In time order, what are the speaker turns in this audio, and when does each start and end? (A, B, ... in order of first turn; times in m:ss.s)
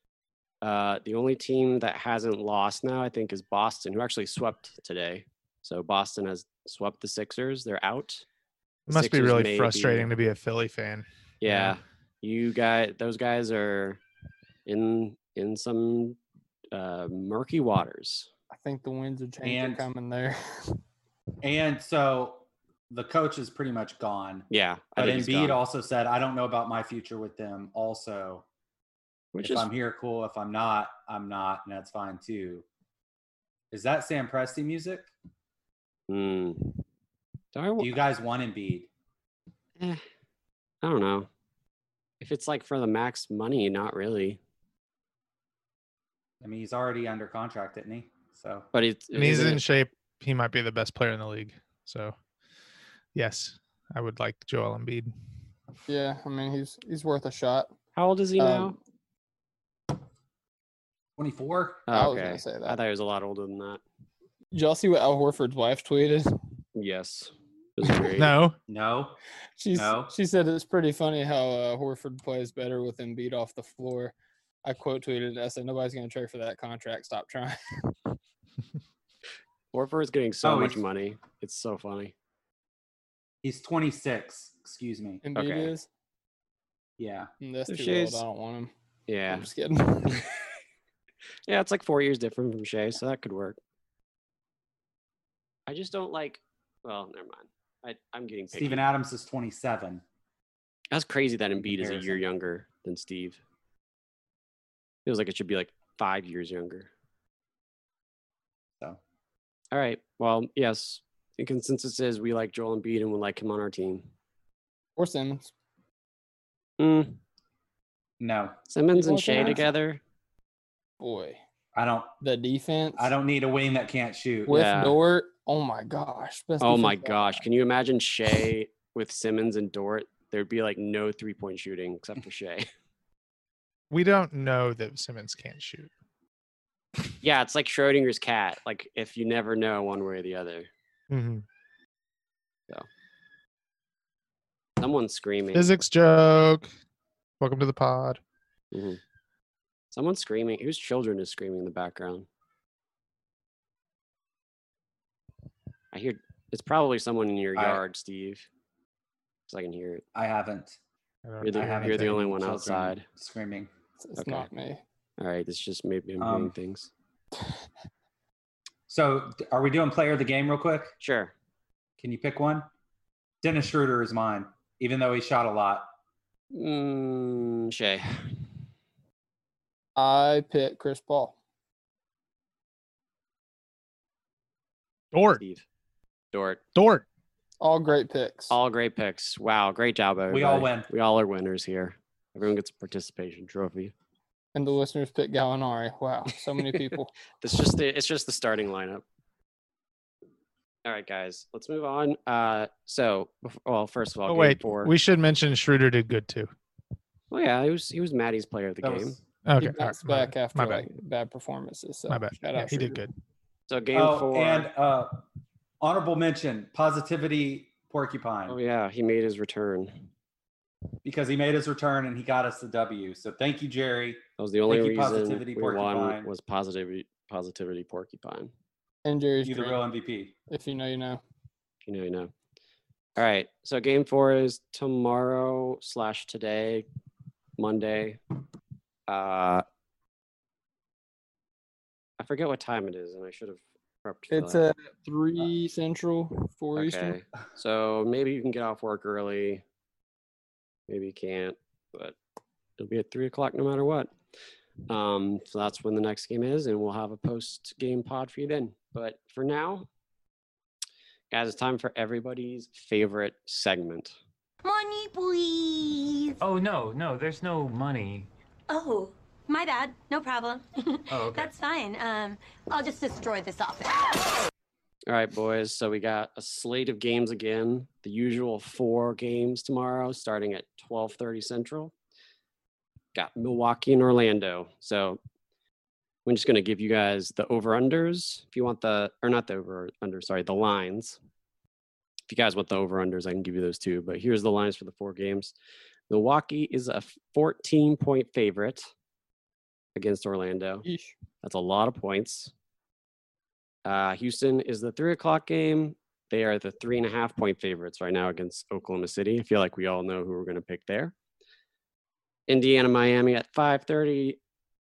0:00.6-0:08.2 A
0:08.9-0:11.8 B
0:08.9-0:10.1 A
0:11.4-0:14.0 A
0:14.6-0:16.2 A
0:16.7-0:18.3 A
0:18.5-0:20.8 C
0:19.4-0:19.8 D
0:21.4-0:28.4 D
0:24.5-0:25.6 A
0:29.3-0:29.7 A
0:29.4-0:32.6 D
0:33.7-0:35.1 D
0:36.1-0:36.8 A
0:37.5-0:37.9 A
0:37.8-0:38.9 D
0:40.8-0:41.3 A
0:42.2-0:44.4 A
0:46.4-0:48.7 D
0:48.7-0:49.6 A
0:49.1-0:52.1 B
0:53.1-0:55.1 B
0:55.9-0:57.7 C
0:58.0-0:58.8 A
0:58.4-0:58.8 C
1:01.2-1:01.9 D
1:01.9-1:03.8 A
1:01.9-1:02.8 C
1:04.5-1:06.3 C
1:06.8-1:08.3 A
1:08.1-1:08.6 B
1:08.7-1:09.2 D
1:09.6-1:14.1 C
1:09.7-1:10.1 D
1:14.6-1:17.9 C
1:19.7-1:22.1 A
1:20.4-1:20.8 D
1:23.4-1:25.2 D
1:25.2-1:25.9 C
1:25.3-1:25.7 A
1:27.0-1:27.3 D
1:27.4-1:28.7 C
1:27.7-1:28.2 A
1:29.1-1:29.5 A
1:29.3-1:30.3 C
1:31.5-1:33.6 A
1:35.7-1:38.8 A
1:38.5-1:40.0 D
1:40.9-1:43.4 A
1:41.6-1:42.2 D
1:45.0-1:46.9 A
1:49.7-1:54.0 A
1:55.0-1:55.5 C
1:56.8-1:57.2 A
1:58.2-1:58.6 D
1:58.7-2:00.0 A
1:58.9-1:59.7 C
2:01.0-2:01.4 C
2:01.7-2:02.2 D
2:02.2-2:03.1 C
2:03.0-2:04.5 D
2:04.5-2:07.4 C
2:04.5-2:05.0 A
2:06.6-2:12.7 A
2:13.9-2:15.9 B
2:17.2-2:20.7 A
2:21.1-2:21.4 B
2:24.8-2:25.7 A
2:25.5-2:26.7 B
2:27.4-2:28.2 B
2:28.7-2:29.0 A
2:29.9-2:32.3 A
2:35.9-2:38.5 A
2:37.6-2:37.8 D
2:39.5-2:40.0 A
2:40.1-2:40.8 D
2:41.2-2:42.2 B
2:41.4-2:43.0 A
2:41.5-2:43.7 D
2:44.0-2:44.8 C
2:44.2-2:44.5 A
2:45.2-2:46.9 A
2:46.2-2:46.5 D
2:48.9-2:50.9 D
2:51.0-2:51.3 A
2:52.0-2:52.7 D
2:53.4-2:55.9 D
2:56.5-2:58.2 A
3:00.0-3:01.4 C
3:05.1-3:05.4 B
3:05.4-3:05.6 A
3:06.3-3:06.6 A
3:06.7-3:07.0 B
3:07.6-3:08.5 C
3:08.5-3:13.9 A
3:10.3-3:10.9 D
3:14.5-3:17.1 C
3:17.4-3:19.0 A
3:20.8-3:24.9 A
3:24.3-3:26.5 B
3:27.3-3:29.2 A
3:28.8-3:29.2 D
3:29.4-3:30.9 B
3:29.6-3:33.0 C
3:32.1-3:33.1 B
3:33.7-3:34.7 A
3:33.9-3:35.2 D
3:35.8-3:38.6 D
3:38.5-3:40.1 A
3:41.0-3:46.3 D
3:44.4-3:48.5 A
3:49.0-3:49.8 C
3:49.4-3:50.4 D
3:50.5-3:51.2 C
3:51.8-3:52.3 A
3:53.2-3:56.8 A
3:57.6-3:58.2 A
3:59.1-3:59.6 A
4:02.2-4:04.6 A
4:04.3-4:07.2 C
4:06.7-4:09.6 A
4:10.9-4:12.2 A
4:12.8-4:14.1 A
4:14.9-4:19.9 A
4:21.3-4:24.2 A
4:24.6-4:26.4 E
4:26.4-4:28.3 F
4:28.7-4:34.5 E
4:31.1-4:31.5 F
4:35.1-4:41.9 A
4:43.1-4:45.2 A
4:46.2-4:51.2 A
4:52.3-4:55.5 A
4:56.1-4:58.9 A
4:59.9-5:00.8 A
5:00.8-5:01.1 C
5:01.4-5:02.5 A
5:03.8-5:11.1 A
5:12.5-5:14.4 A